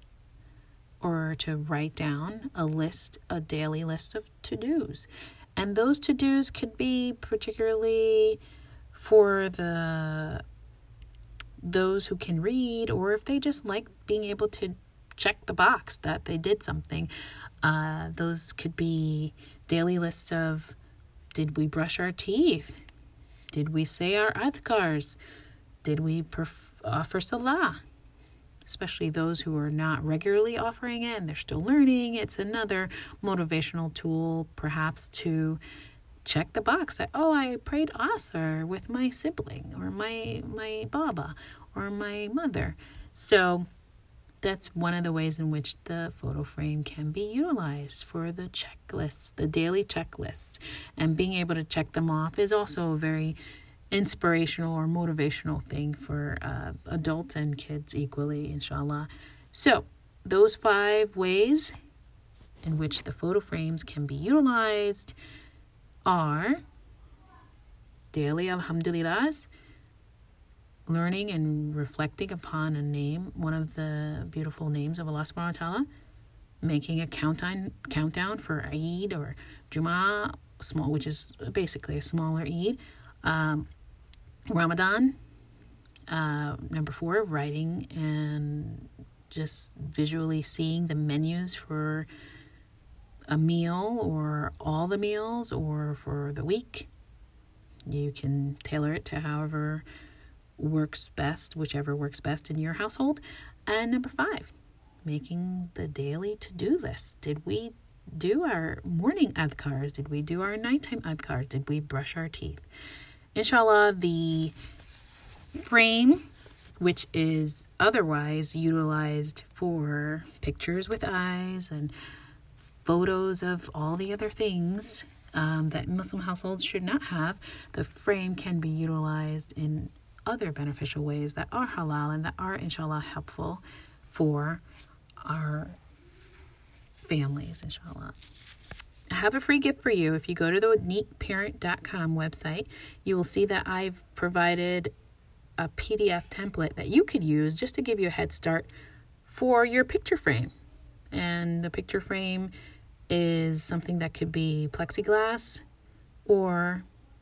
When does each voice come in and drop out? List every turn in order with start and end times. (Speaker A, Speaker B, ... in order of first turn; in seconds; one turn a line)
Speaker A: 1.0-8.4
Speaker A: 8.9-10.4
Speaker A: 11.6-17.1
Speaker A: 17.6-20.8
Speaker A: 21.3-22.8
Speaker A: 23.5-25.2
Speaker A: 25.8-27.8
Speaker A: 28.6-35.6
Speaker A: 36.2-43.7
Speaker A: 44.4-53.4
Speaker A: 53.9-61.7
Speaker A: 62.6-65.1
Speaker A: 66.0-66.6
Speaker A: 68.1-69.5
Speaker A: 70.9-75.9
Speaker A: 76.6-83.7
Speaker A: 84.5-85.2
Speaker A: 86.1-92.1
Speaker A: 93.3-96.9
Speaker A: 97.9-99.8
Speaker A: 100.6-104.5
Speaker A: 105.0-112.6
Speaker A: 113.3-114.5
Speaker A: 115.5-116.3
Speaker A: 116.8-121.9
Speaker A: 122.8-134.6
Speaker A: 135.2-135.8
Speaker A: 137.0-138.2
Speaker A: 139.1-144.9
Speaker A: 145.6-148.7
Speaker A: 149.2-150.5
Speaker A: 151.1-152.5
Speaker A: 153.1-155.6
Speaker A: 156.2-156.8